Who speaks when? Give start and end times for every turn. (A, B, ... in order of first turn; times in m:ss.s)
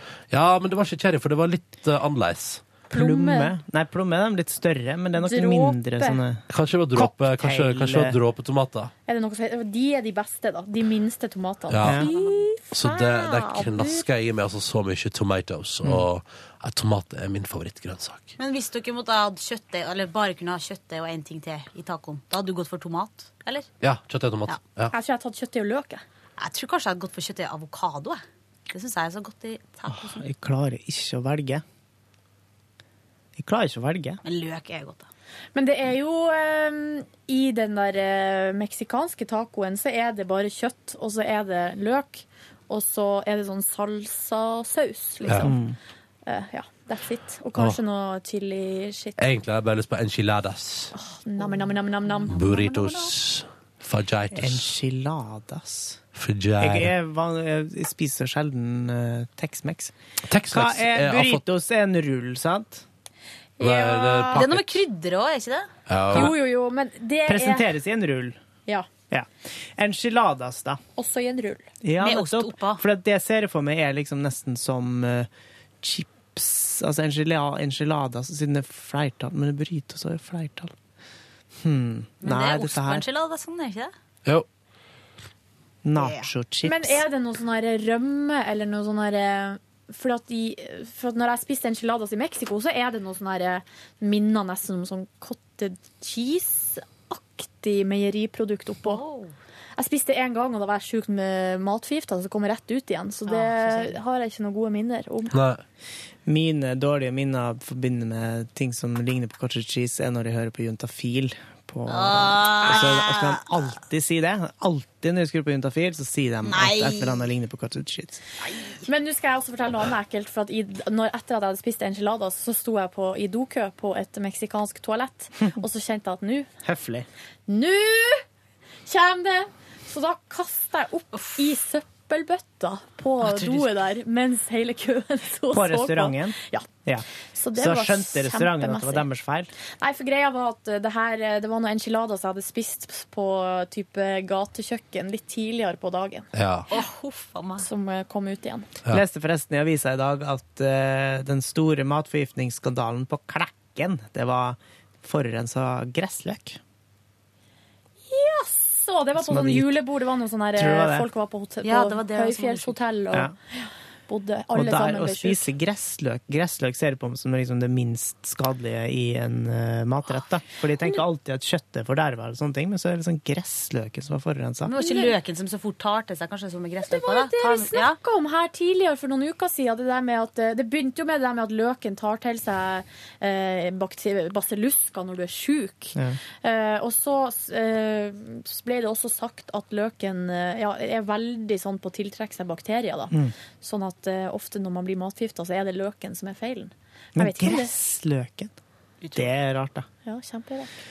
0:00.3-0:02.6 A
0:02.9-0:03.5 B
0:02.9-0:08.1 C
0:05.2-0:06.2 B
0:06.5-0:08.9 A
0:09.1-0:14.0 B
0:11.7-0:12.0 A
0:11.8-0:12.1 C
0:12.0-0:12.5 D
0:12.7-0:18.3 A
0:18.4-0:23.7 D
0:23.8-0:24.9 A
0:24.9-0:26.0 B
0:26.4-0:30.2 D
0:29.9-0:31.6 C
0:33.4-0:34.2 C
0:34.2-0:35.1 D
0:35.5-0:45.6 B
0:45.2-0:45.5 A
0:45.4-0:45.8 C
0:46.2-0:49.2 B
0:49.2-0:50.9 A
0:50.9-0:53.1 B
0:52.3-0:54.7 A
0:54.3-0:56.0 C
0:56.2-0:56.9 A
0:56.6-0:59.9 C
1:00.3-1:01.4 A
1:00.5-1:02.8 C
1:03.6-1:04.5 B
1:03.6-1:04.8 A
1:04.3-1:05.7 D
1:05.9-1:06.3 A
1:06.1-1:07.7 B
1:07.2-1:08.4 C
1:09.1-1:10.8 C
1:11.0-1:11.7 B
1:11.8-1:15.3 C
1:12.0-1:12.8 D
1:15.8-1:20.7 C
1:21.6-1:23.0 C
1:22.2-1:23.9 D
1:25.8-1:27.0 C
1:25.9-1:26.3 D
1:26.6-1:39.0 B
1:38.8-1:39.3 D
1:39.8-1:45.3 B
1:43.2-1:44.0 D
1:45.3-1:45.6 A
1:46.3-1:58.2 C
1:51.9-1:53.4 D
1:52.6-1:52.9 B
1:56.4-1:57.2 D
1:58.4-1:58.8 D
1:58.8-2:06.5 B
2:06.6-2:07.1 C
2:07.5-2:08.2 B
2:08.8-2:16.7 B
2:15.5-2:19.5 C
2:17.3-2:19.0 B
2:19.8-2:26.3 B
2:26.3-2:26.7 A
2:26.7-2:27.7 D
2:27.6-2:28.7 B
2:28.9-2:36.6 C
2:38.1-2:43.3 B
2:39.2-2:39.7 C
2:40.6-2:41.1 C
2:41.6-2:42.8 D
2:44.1-2:45.5 B
2:44.5-2:54.7 C
2:54.6-2:58.0 D
2:54.7-2:55.1 B
2:56.9-3:17.7 B
3:17.2-3:18.5 C
3:19.0-3:19.3 D
3:19.1-3:19.8 C
3:20.0-3:20.7 B